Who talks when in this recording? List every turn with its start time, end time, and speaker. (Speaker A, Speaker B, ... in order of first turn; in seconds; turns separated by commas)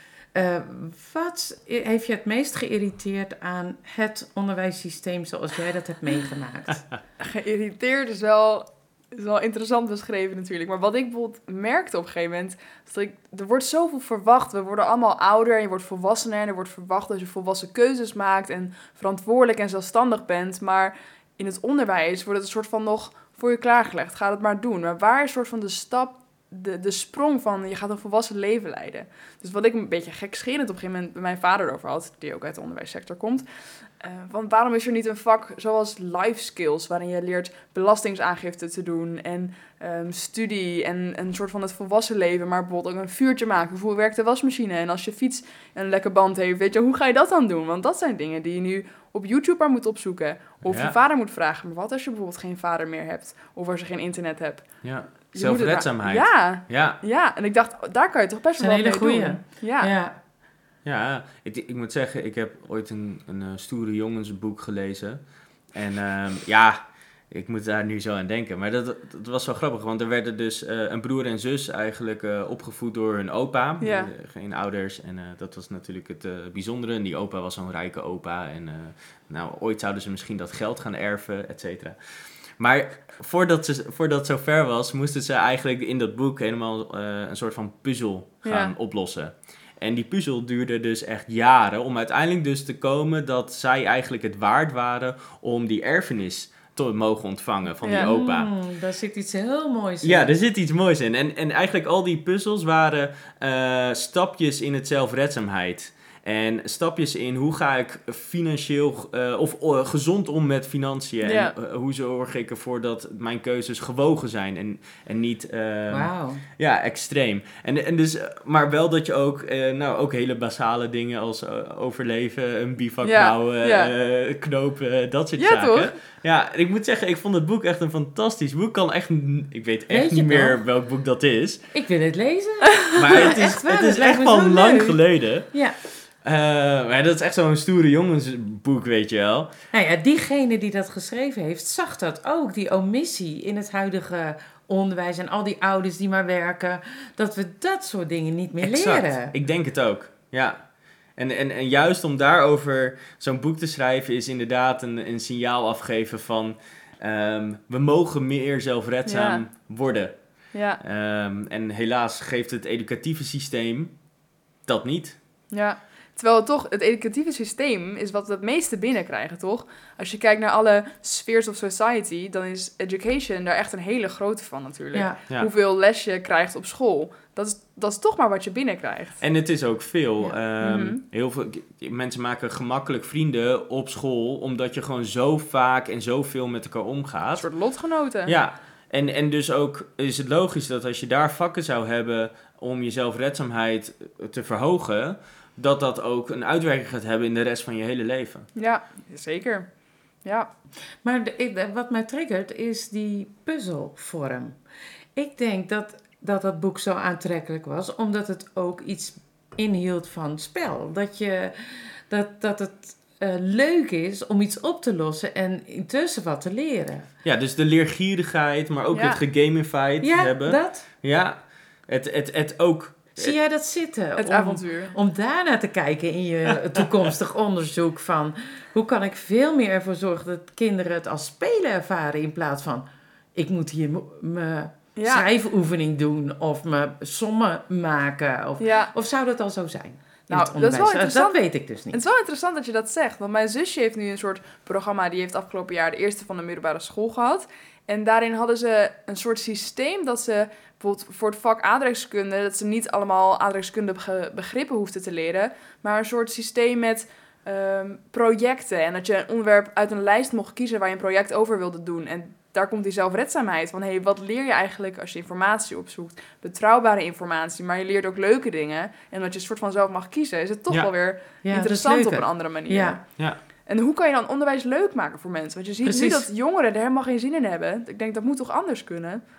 Speaker A: 0.3-6.8, Speaker B: 7.2-33.4, Speaker B: 34.0-54.7, Speaker C: 50.6-50.9, Speaker C: 54.8-57.0, Speaker B: 55.3-59.9, Speaker A: 58.6-60.1, Speaker C: 60.8-65.2, Speaker C: 65.7-66.8, Speaker C: 67.3-82.0, Speaker B: 73.8-74.1, Speaker C: 82.6-98.5, Speaker B: 88.4-88.7, Speaker B: 97.8-98.1, Speaker A: 97.9-100.3, Speaker C: 100.0-131.7, Speaker B: 111.2-111.5, Speaker A: 115.9-116.4, Speaker B: 123.0-123.9, Speaker B: 125.4-125.9, Speaker A: 129.9-130.6, Speaker A: 131.7-135.0, Speaker C: 132.9-135.5, Speaker A: 135.5-135.8, Speaker C: 136.2-139.5, Speaker A: 139.7-149.3, Speaker C: 148.6-150.6, Speaker C: 151.2-160.2, Speaker B: 159.1-159.4, Speaker B: 160.5-160.8, Speaker C: 160.8-163.9, Speaker C: 164.7-165.2, Speaker B: 165.5-179.2, Speaker A: 174.9-175.2, Speaker C: 179.2-187.5, Speaker B: 180.6-181.0, Speaker B: 187.3-188.3, Speaker C: 188.2-198.5, Speaker B: 198.6-199.7, Speaker B: 200.2-200.5, Speaker A: 201.0-204.6, Speaker A: 205.1-217.1, Speaker C: 217.2-223.3, Speaker B: 218.9-219.2, Speaker A: 220.0-220.8, Speaker A: 223.2-242.0, Speaker B: 224.2-224.9, Speaker B: 234.9-235.3, Speaker B: 238.6-238.9, Speaker B: 240.3-273.0, Speaker A: 271.4-273.0, Speaker B: 273.6-279.2, Speaker A: 275.8-276.3